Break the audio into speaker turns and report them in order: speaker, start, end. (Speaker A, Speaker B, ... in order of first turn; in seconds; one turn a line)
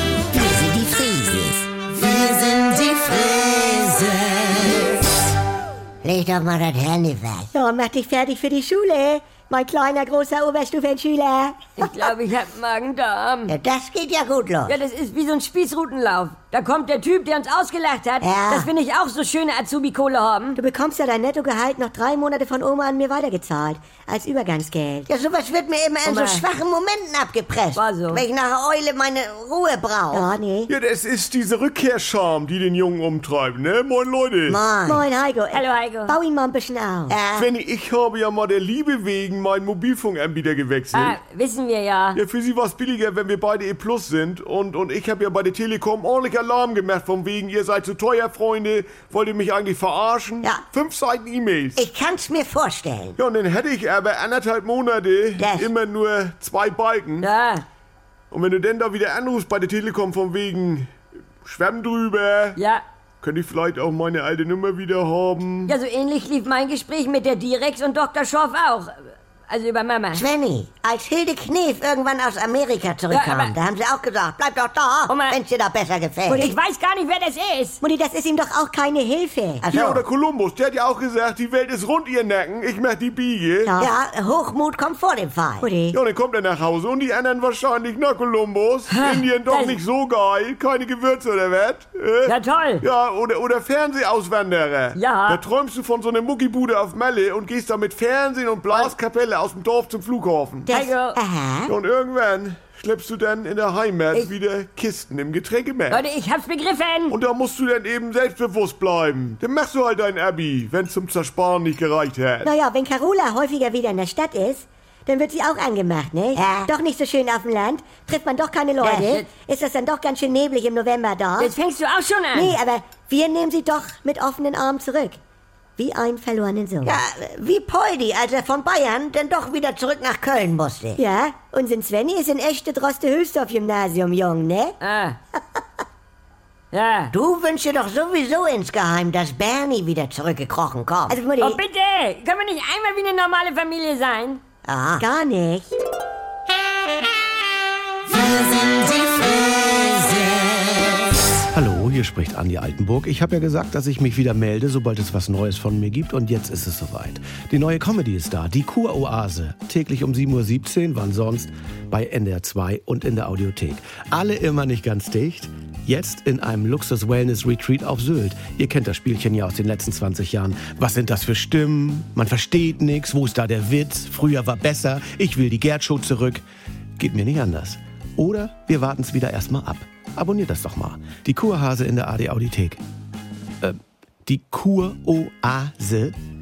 Speaker A: 0.3-4.9
Speaker A: 6.0-7.5
Speaker B: 7.5-12.0
Speaker C: 11.8-13.5
Speaker A: 13.5-14.8
Speaker C: 14.7-20.6
Speaker A: 18.2-18.7
Speaker B: 20.6-25.1
Speaker A: 25.1-30.3
Speaker C: 26.1-26.4
Speaker C: 27.7-28.2
Speaker B: 30.1-30.7
Speaker D: 30.7-34.6
Speaker A: 34.5-35.0
Speaker B: 34.9-37.2
Speaker C: 35.5-36.1
Speaker A: 37.1-37.5
Speaker D: 37.3-41.2
Speaker C: 40.9-42.2
Speaker D: 42.1-51.9
Speaker A: 51.8-53.2
Speaker D: 53.2-57.3
Speaker A: 55.4-55.7
Speaker C: 57.2-57.6
Speaker D: 58.3-60.9
Speaker D: 61.4-62.6
Speaker C: 62.6-62.8
Speaker D: 63.2-65.7
Speaker C: 65.7-70.2
Speaker A: 70.1-76.5
Speaker C: 73.1-73.5
Speaker C: 75.1-75.4
Speaker B: 76.3-76.5
Speaker C: 76.4-77.8
Speaker B: 77.8-79.6
Speaker A: 79.6-80.0
Speaker D: 79.7-83.8
Speaker B: 83.6-83.9
Speaker A: 83.8-85.7
Speaker B: 85.6-86.0
Speaker D: 85.9-100.8
Speaker C: 88.9-89.8
Speaker C: 92.2-92.8
Speaker C: 95.0-95.4
Speaker B: 100.7-101.7
Speaker C: 100.7-101.2
Speaker D: 101.7-106.0
Speaker C: 105.9-107.2
Speaker D: 107.1-112.5
Speaker B: 112.4-121.5
Speaker A: 116.4-116.7
Speaker C: 118.8-119.3
Speaker C: 121.4-122.5
Speaker B: 122.3-125.2
Speaker B: 125.8-127.0
Speaker A: 126.8-131.0
Speaker B: 131.0-134.8
Speaker C: 134.8-135.2
Speaker C: 136.7-137.1
Speaker A: 137.1-141.2
Speaker B: 141.1-141.6
Speaker C: 141.4-144.4
Speaker A: 144.7-145.0
Speaker B: 145.0-145.8
Speaker A: 148.5-149.8
Speaker E: 151.5-176.4
Speaker E: 177.0-182.8
Speaker E: 183.6-186.2